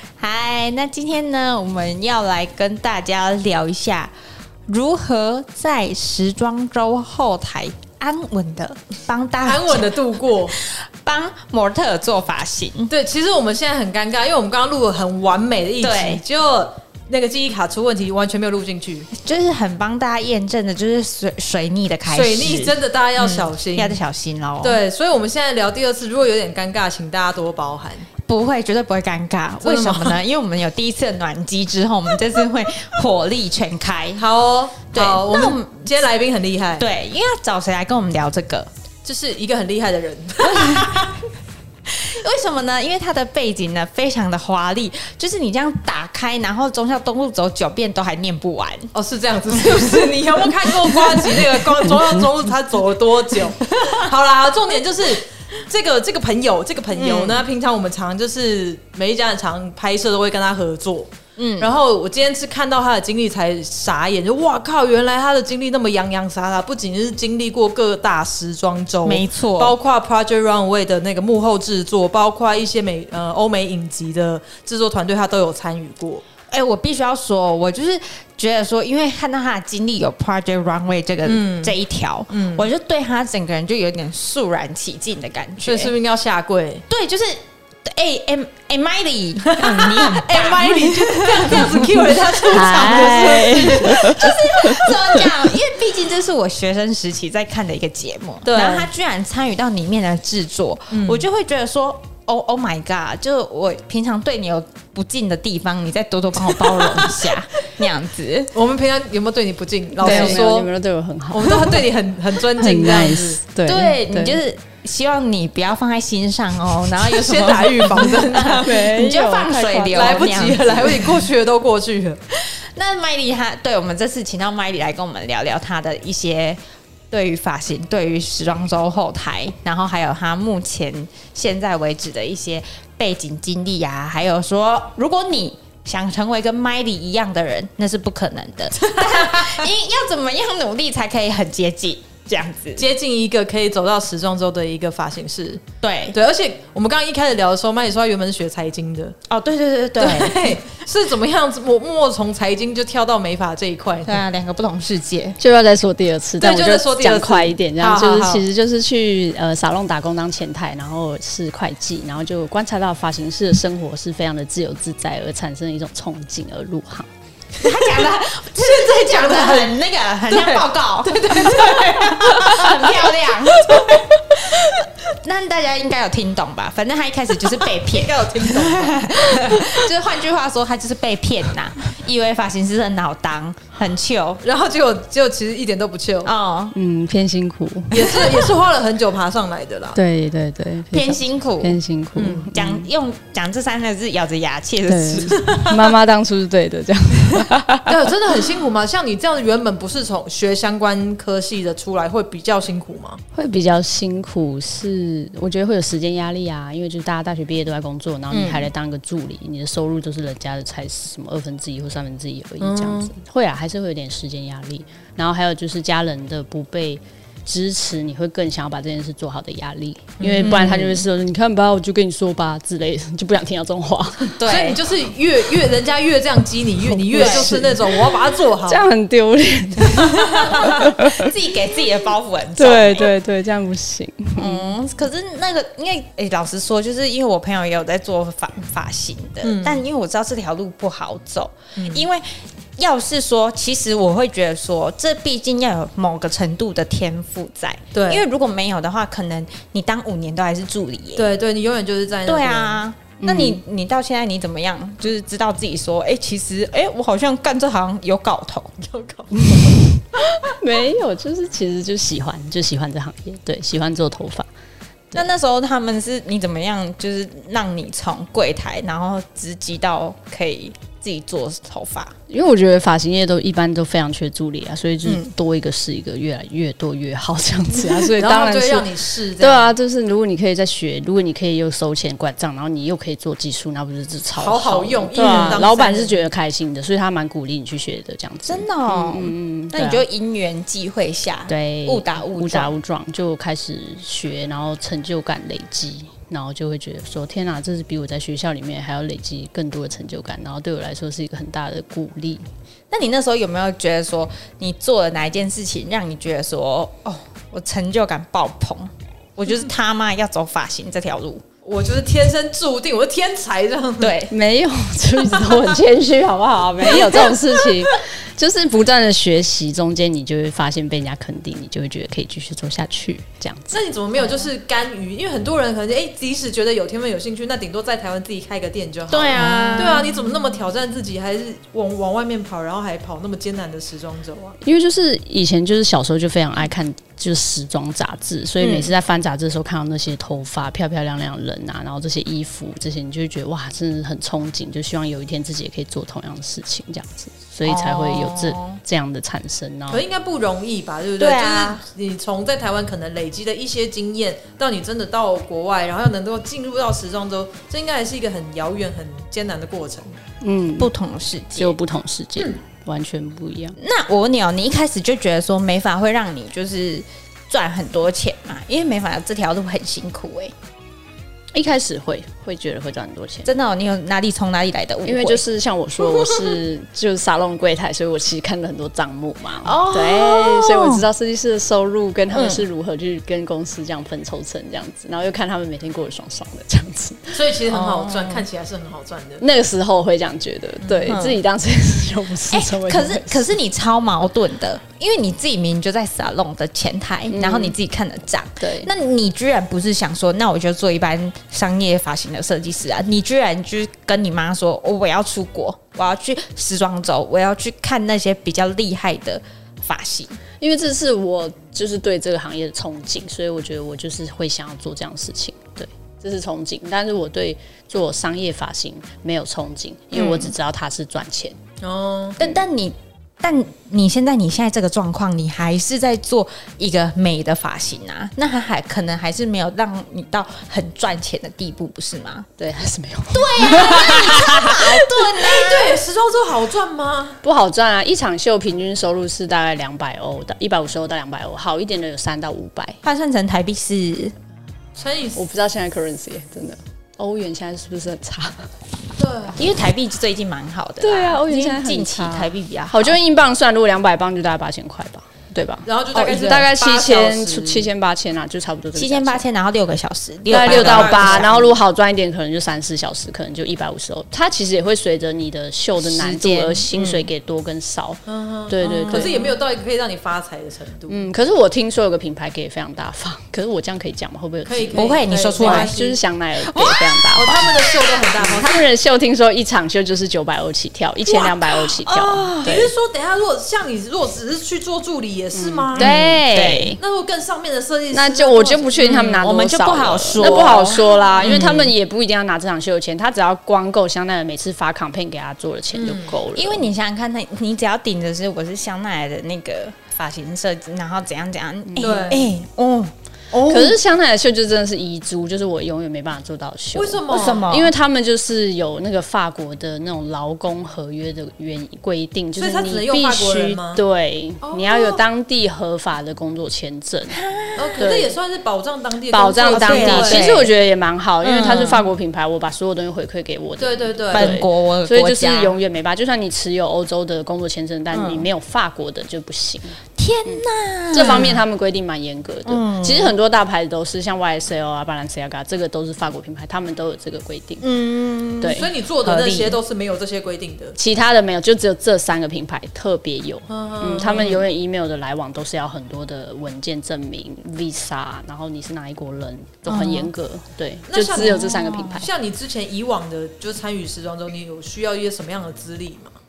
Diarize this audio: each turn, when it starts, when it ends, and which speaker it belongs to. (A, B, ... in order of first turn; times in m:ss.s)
0:00.2-0:04.1 A
0:04.7-0:09.9 A
0:09.5-0:10.6 B
0:10.5-0:12.9 A
0:12.9-0:19.1 B
0:15.8-0:16.2 A
0:19.1-0:24.8 A
0:22.1-0:24.0 B
0:24.6-0:28.1 B
0:28.2-0:34.2 A
0:29.6-0:30.2 B
0:34.2-0:36.9 B
0:34.9-0:35.9 A
0:36.8-0:38.7 A
0:39.0-0:41.2 B
0:40.4-0:41.2 A
0:41.9-0:48.9 A
0:48.9-1:16.2 B
0:49.5-0:51.9 A
0:56.9-0:57.5 A
1:01.4-1:01.7 A
1:09.0-1:09.8 A
1:16.5-1:25.9 A
1:21.2-1:21.8 B
1:22.3-1:22.7 B
1:25.6-1:26.8 B
1:26.9-1:48.5 A
1:29.5-1:34.4 B
1:32.5-1:35.3 C
1:38.4-1:38.9 B
1:40.9-1:41.2 B
1:46.6-1:47.4 B
1:48.6-1:50.7 B
1:50.0-1:50.4 A
1:50.0-1:51.8 C
1:51.3-1:53.4 B
1:52.6-1:54.4 C
1:53.7-2:01.3 A
1:57.0-1:58.8 B
1:58.6-2:00.6 C
1:59.9-2:02.2 B
2:02.3-2:06.6 A
2:07.1-2:22.9 A
2:18.8-2:19.6 B
2:22.8-2:29.2 B
2:25.8-2:26.2 A
2:29.3-2:30.6 A
2:30.0-2:34.2 B
2:34.0-2:35.4 A
2:35.4-2:47.1 C
2:36.4-2:38.4 B
2:47.6-3:04.4 A
2:48.6-2:49.8 B
2:50.3-2:54.8 B
2:57.5-2:59.9 B
3:04.4-3:06.3 B
3:06.2-3:06.8 A
3:06.7-3:08.4 C
3:07.9-3:10.0 B
3:09.9-3:12.8 C
3:10.9-3:11.8 A
3:12.2-3:12.6 B
3:12.5-3:15.4 A
3:14.9-3:17.9 C
3:15.4-3:15.8 B
3:17.9-3:23.2 B
3:23.3-3:44.3 C
3:28.3-3:28.7 A
3:32.6-3:33.1 B
3:40.2-3:40.6 B
3:40.4-3:41.0 A
3:44.4-3:44.8 A
3:44.4-3:48.9 B
3:46.9-3:51.3 C
3:47.1-3:47.6 A
3:49.8-3:50.4 B
3:50.0-3:53.1 A
3:52.6-3:54.7 C
3:54.4-4:11.3 A
3:59.4-3:59.8 B
4:01.8-4:02.1 B
4:07.9-4:08.2 B
4:11.2-4:12.8 B
4:12.3-4:18.8 A
4:13.2-4:13.6 C
4:18.9-4:19.8 B
4:19.5-4:24.5 C
4:25.1-4:32.2 A
4:32.3-4:50.0 C
4:35.0-4:35.3 A
4:37.8-4:39.7 B
4:44.4-4:46.3 B
4:45.2-4:45.6 A
4:48.5-4:52.7 A
4:51.5-5:02.4 C
5:02.9-5:11.4 A
5:11.6-5:14.2 B
5:14.0-5:14.3 A
5:14.3-5:23.8 C
5:16.9-5:17.7 B
5:23.7-5:34.6 B
5:29.1-5:30.1 A
5:34.6-5:50.0 C
5:38.6-5:38.9 A
5:47.6-5:48.8 A
5:49.9-6:00.2 B
5:51.2-5:51.8 A
6:00.4-6:00.9 C
6:00.8-6:01.8 A
6:01.6-6:03.8 C
6:03.8-6:10.5 A
6:11.6-6:13.5 C
6:13.5-6:15.4 A
6:15.0-6:27.4 C
6:19.6-6:21.0 A
6:22.3-6:22.6 A
6:27.3-6:29.4 B
6:27.7-6:28.5 A
6:29.4-6:33.5 C
6:30.8-6:31.1 B
6:31.1-6:31.4 A
6:32.5-6:50.4 A
6:37.3-6:37.8 C
6:38.6-6:38.9 C
6:50.6-7:01.6 C
7:00.2-7:00.5 B
7:01.8-7:02.4 B
7:02.4-7:12.5 A
7:12.6-7:14.8 C
7:13.3-7:16.0 A
7:15.0-7:17.4 B
7:17.4-7:23.0 C
7:23.0-7:24.3 A
7:25.0-7:25.4 B
7:25.4-7:28.7 C
7:29.2-7:29.6 B
7:29.6-7:33.2 A
7:31.0-7:39.4 C
7:35.8-7:37.9 B
7:39.0-7:41.6 A
7:40.5-7:41.6 B
7:40.5-7:49.5 C
7:46.0-7:47.3 A
7:48.3-7:51.3 B
7:48.8-7:49.4 A
7:51.1-7:57.8 C
7:54.7-7:56.2 B
7:55.0-7:56.0 A
7:56.6-7:58.1 A
7:57.4-7:58.8 B
7:58.4-8:02.9 C
8:01.4-8:02.8 A
8:02.5-8:06.1 B
8:05.5-8:07.0 C
8:06.0-8:07.0 A
8:07.0-8:09.4 B
8:08.1-8:16.9 C
8:09.0-8:11.9 A
8:10.5-8:11.5 B
8:15.9-8:16.4 B
8:16.5-8:24.0 A
8:21.9-8:22.3 C
8:22.0-8:22.5 B
8:23.7-8:37.4 C
8:26.9-8:27.7 B
8:27.3-8:27.9 A
8:32.6-8:34.0 B
8:34.6-8:35.2 B
8:37.3-8:38.1 A
8:37.8-8:40.5 B
8:38.0-8:38.3 C
8:39.3-8:57.8 C
8:39.7-8:40.7 A
8:41.4-8:42.0 A
8:41.6-8:41.9 B
8:43.8-8:44.6 B
8:44.3-8:45.8 A
8:48.1-8:48.5 A
8:50.2-8:51.6 A
8:52.7-8:53.3 A
8:57.8-8:59.8 A
8:58.6-8:58.9 C
8:58.7-9:01.0 B
9:01.0-9:12.3 C
9:03.7-9:04.5 B
9:09.9-9:10.3 A
9:11.1-9:16.4 B
9:11.3-9:12.3 A